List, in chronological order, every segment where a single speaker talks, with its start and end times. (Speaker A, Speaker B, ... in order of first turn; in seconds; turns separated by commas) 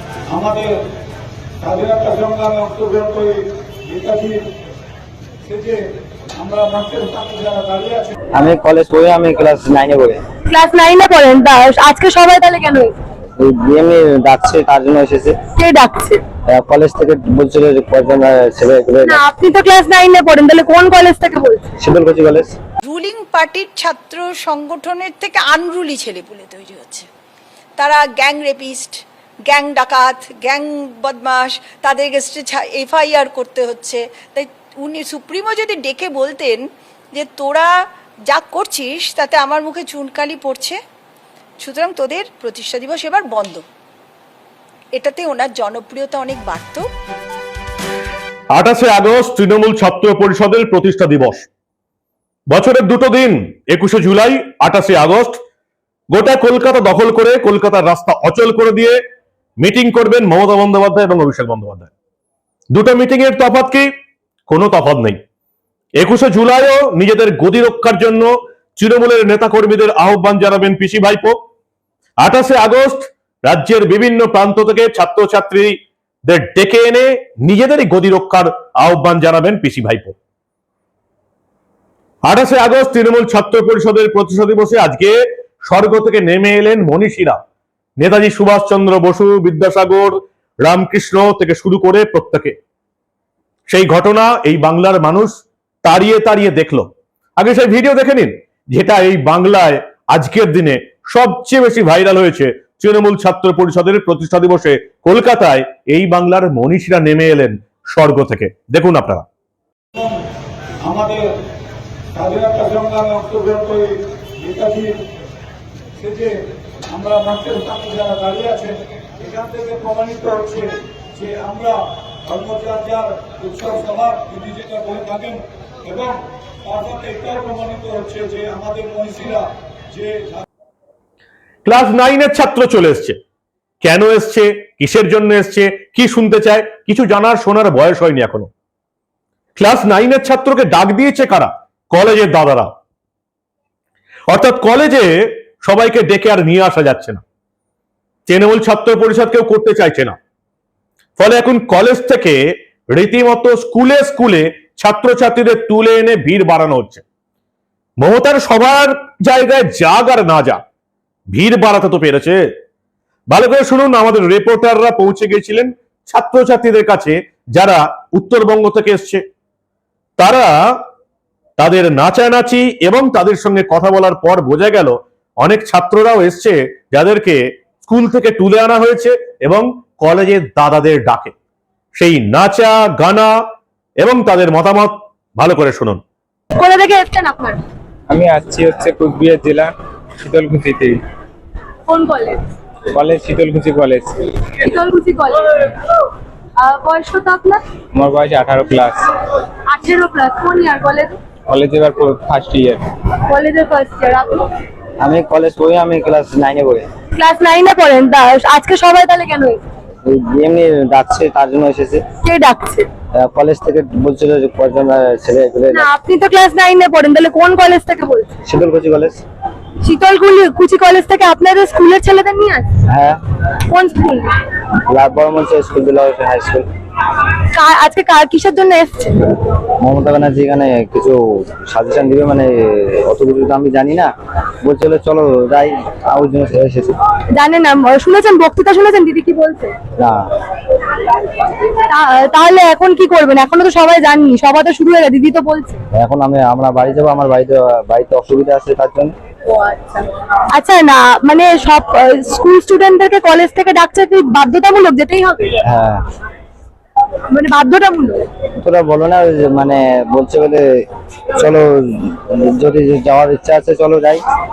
Speaker A: 0.3-0.7, Speaker A: 1.6-4.4, Speaker A: 5.5-5.8, Speaker A: 6.4-8.2, Speaker B: 8.3-10.2, Speaker C: 10.5-12.9, Speaker B: 13.4-15.3, Speaker C: 15.5-16.2, Speaker B: 16.4-19.2, Speaker C: 19.0-21.7, Speaker B: 21.8-22.6, Speaker D: 22.8-27.1, Speaker D: 27.8-36.6, Speaker D: 37.1-37.7, Speaker D: 38.2-40.8, Speaker D: 41.6-43.6, Speaker D: 44.9-46.8, Speaker E: 48.5-51.5, Speaker E: 52.5-55.4, Speaker E: 56.1-59.0, Speaker E: 59.6-61.9, Speaker E: 62.7-63.9, Speaker E: 64.5-65.2, Speaker E: 66.0-71.4, Speaker E: 72.2-80.2, Speaker E: 82.2-87.4, Speaker E: 88.0-92.6, Speaker E: 93.7-109.2, Speaker A: 110.8-111.2, Speaker A: 112.1-113.9, Speaker A: 114.4-114.9, Speaker A: 116.0-116.3, Speaker A: 116.9-130.4, Speaker E: 131.6-133.2, Speaker E: 133.8-138.5, Speaker E: 139.6-142.7, Speaker E: 144.3-147.2, Speaker E: 148.3-150.1, Speaker E: 151.2-157.0, Speaker E: 158.0-160.6, Speaker E: 161.3-162.4, Speaker E: 163.3-169.2, Speaker E: 170.2-170.8, Speaker E: 171.6-181.3, Speaker E: 181.9-183.3, Speaker E: 184.0-186.0, Speaker C: 186.6-187.6, Speaker F: 188.1-190.9, Speaker C: 191.9-192.4, Speaker F: 192.9-194.2, Speaker C: 194.6-195.5, Speaker C: 196.6-197.6, Speaker F: 197.9-199.0, Speaker C: 199.7-201.2, Speaker F: 201.5-202.8, Speaker C: 203.3-204.5, Speaker B: 205.0-206.8, Speaker C: 207.1-209.6, Speaker B: 210.0-212.0, Speaker C: 212.2-212.9, Speaker B: 213.2-215.9, Speaker C: 215.7-218.4, Speaker B: 218.4-219.2, Speaker C: 219.8-222.8, Speaker B: 222.9-223.2, Speaker C: 223.7-224.4, Speaker B: 224.9-226.7, Speaker C: 227.5-229.3, Speaker B: 229.8-234.1, Speaker B: 234.6-236.9, Speaker C: 237.3-239.8, Speaker C: 241.9-245.8, Speaker B: 245.9-249.1, Speaker C: 249.5-250.0, Speaker C: 250.6-255.6, Speaker B: 255.6-256.0, Speaker C: 257.3-258.3, Speaker B: 258.6-260.6, Speaker B: 261.4-264.2